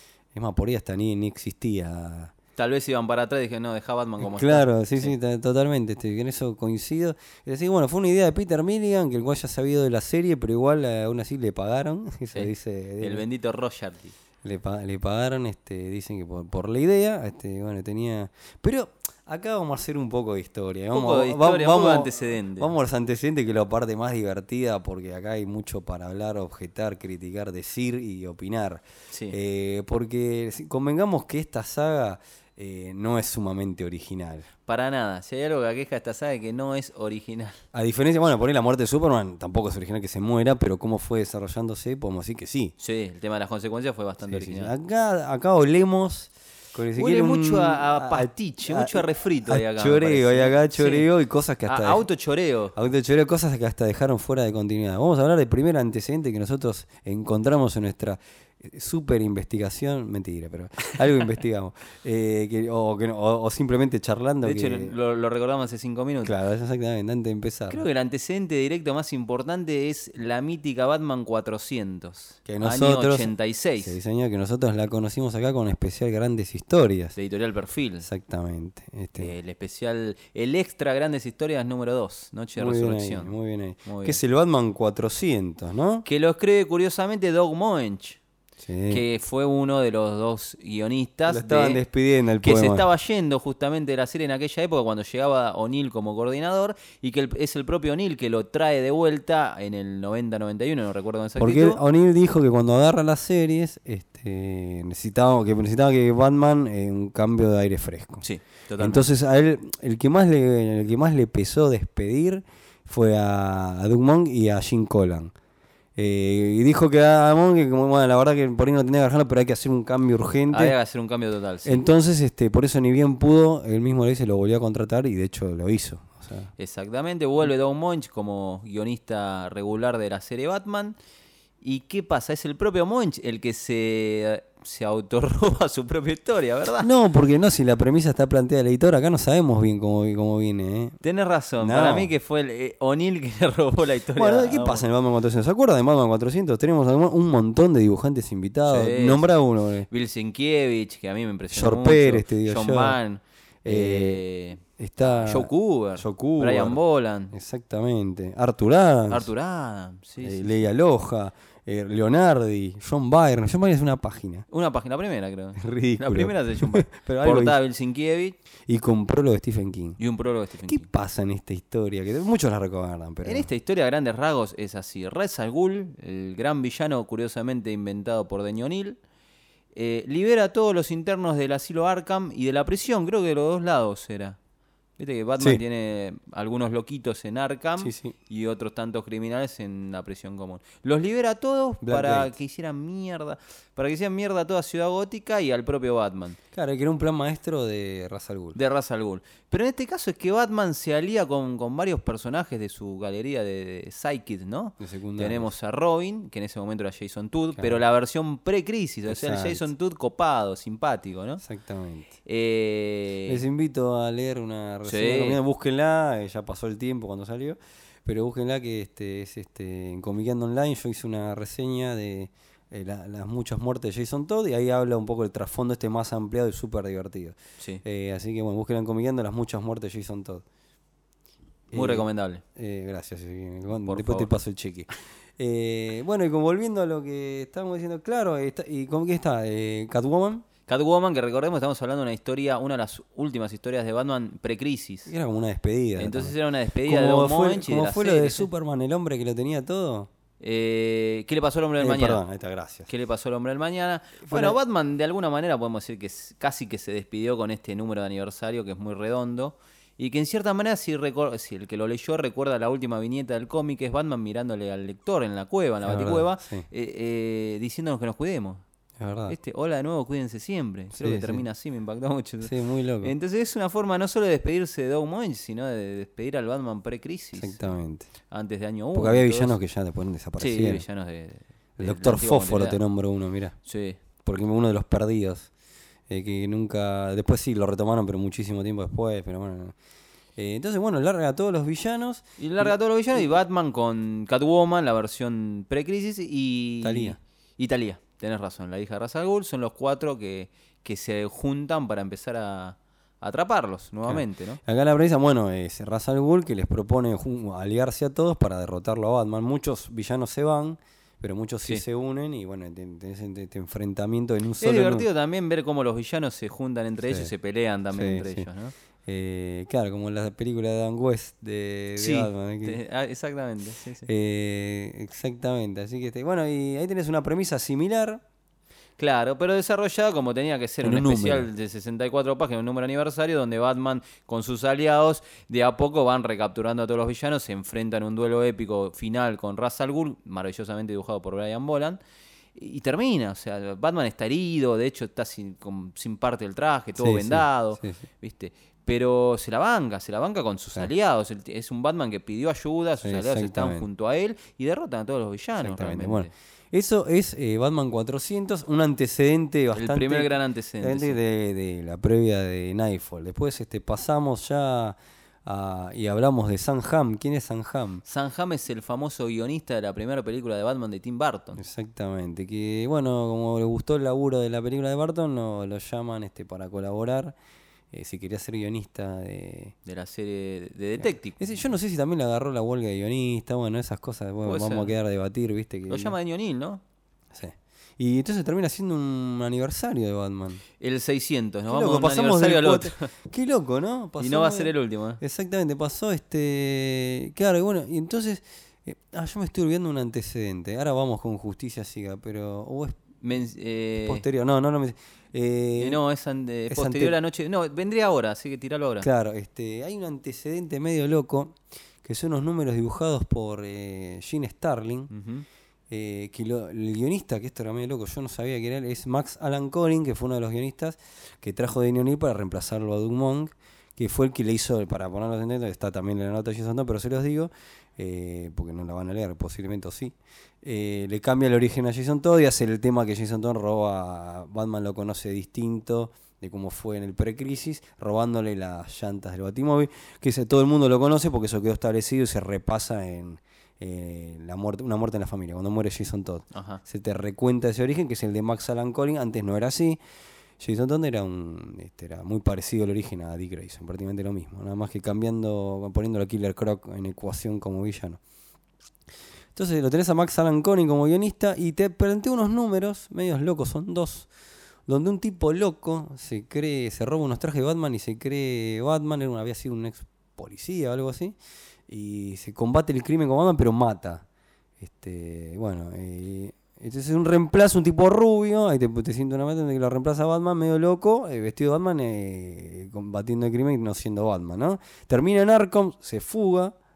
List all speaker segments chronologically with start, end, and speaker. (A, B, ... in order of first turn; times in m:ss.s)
0:00.3-0:02.3 A
0:02.6-0:05.1 B
0:04.2-0:13.2 A
0:12.3-0:14.1 B
0:14.4-0:34.5 A
0:20.9-0:22.7 B
0:29.1-0:29.4 B
0:34.7-0:37.6 B
0:37.7-0:42.7 A
0:42.8-0:44.7 B
0:44.3-0:52.1 A
0:47.0-0:51.1 B
0:51.7-0:52.7 B
0:52.8-1:05.0 A
1:04.4-1:06.3 B
1:06.2-1:07.8 A
1:07.7-1:14.0 B
1:12.5-1:17.2 A
1:17.2-1:18.1 B
1:18.0-1:19.3 A
1:19.2-1:23.3 B
1:22.6-1:26.1 A
1:23.8-1:24.2 B
1:26.0-1:28.2 B
1:28.6-1:29.0 A
1:28.9-1:31.8 B
1:31.3-1:32.9 A
1:32.4-1:41.8 B
1:41.4-1:48.2 A
1:48.2-1:49.1 B
1:48.8-1:55.3 A
1:56.0-2:00.8 A
2:00.5-2:01.9 B
2:01.6-2:06.5 A
2:06.6-2:11.0 B
2:11.6-2:16.9 B
2:16.8-2:21.0 A
2:21.0-2:24.8 B
2:21.6-2:22.1 A
2:24.2-2:29.9 A
2:28.7-2:29.3 B
2:29.9-2:37.3 B
2:31.5-2:33.0 A
2:33.6-2:34.2 A
2:34.8-2:36.8 A
2:37.3-2:39.3 A
2:39.1-2:40.6 B
2:40.2-2:44.5 A
2:44.5-2:48.4 B
2:45.6-2:47.6 A
2:48.7-2:50.0 A
2:50.0-2:50.9 B
2:50.7-2:53.5 A
2:53.2-2:59.0 B
2:59.7-3:04.4 B
3:05.0-3:16.4 B
3:07.8-3:08.2 A
3:11.8-3:12.3 A
3:16.5-3:18.6 A
3:18.6-3:31.4 B
3:24.8-3:25.5 A
3:27.6-3:27.8 A
3:29.1-3:29.7 A
3:31.4-3:32.2 A
3:32.2-3:33.4 B
3:33.3-3:50.4 A
3:34.8-3:35.4 B
3:51.7-4:00.5 A
3:51.7-3:52.4 B
3:53.7-3:54.3 B
4:00.7-4:05.1 B
4:05.1-4:10.1 A
4:06.0-4:08.5 B
4:10.4-4:12.2 B
4:11.8-4:12.9 A
4:12.9-4:28.6 B
4:14.2-4:14.6 A
4:25.8-4:26.7 A
4:29.0-4:29.4 A
4:29.3-4:32.5 B
4:30.9-4:31.4 A
4:32.4-4:33.1 A
4:33.0-4:37.7 B
4:37.4-4:38.1 A
4:38.3-4:39.6 B
4:38.9-4:40.8 A
4:40.4-4:42.8 B
4:41.8-4:43.6 A
4:43.7-4:44.0 B
4:44.2-4:45.5 A
4:46.1-4:49.8 A
4:50.4-4:52.8 A
4:52.4-5:04.6 B
4:56.8-4:57.2 A
5:04.0-5:15.1 A
5:14.6-5:18.7 B
5:17.1-5:17.3 A
5:17.9-5:18.5 A
5:19.1-5:22.8 A
5:22.0-5:24.1 B
5:24.1-5:28.2 A
5:29.0-5:42.0 B
5:30.8-5:31.5 A
5:42.6-5:56.3 B
5:47.0-5:48.0 A
5:53.0-5:53.9 A
5:55.6-6:08.0 A
5:59.8-6:01.2 B
6:08.0-6:11.6 B
6:11.6-6:17.4 A
6:17.9-6:19.8 A
6:19.8-6:21.5 B
6:21.4-6:26.2 A
6:24.4-6:24.9 B
6:25.9-6:26.8 B
6:27.3-6:30.6 A
6:30.8-6:33.1 B
6:31.7-6:43.0 A
6:34.2-6:35.2 B
6:43.2-6:44.2 B
6:44.0-6:46.0 A
6:45.8-6:49.1 B
6:46.7-6:47.2 A
6:49.0-6:55.1 A
6:55.1-6:55.4 B
6:55.9-7:30.0 A
7:26.5-7:26.8 B
7:30.6-7:38.2 A
7:39.6-7:44.3 A
7:44.9-7:51.4 A
7:51.9-7:54.2 A
7:54.8-8:06.8 A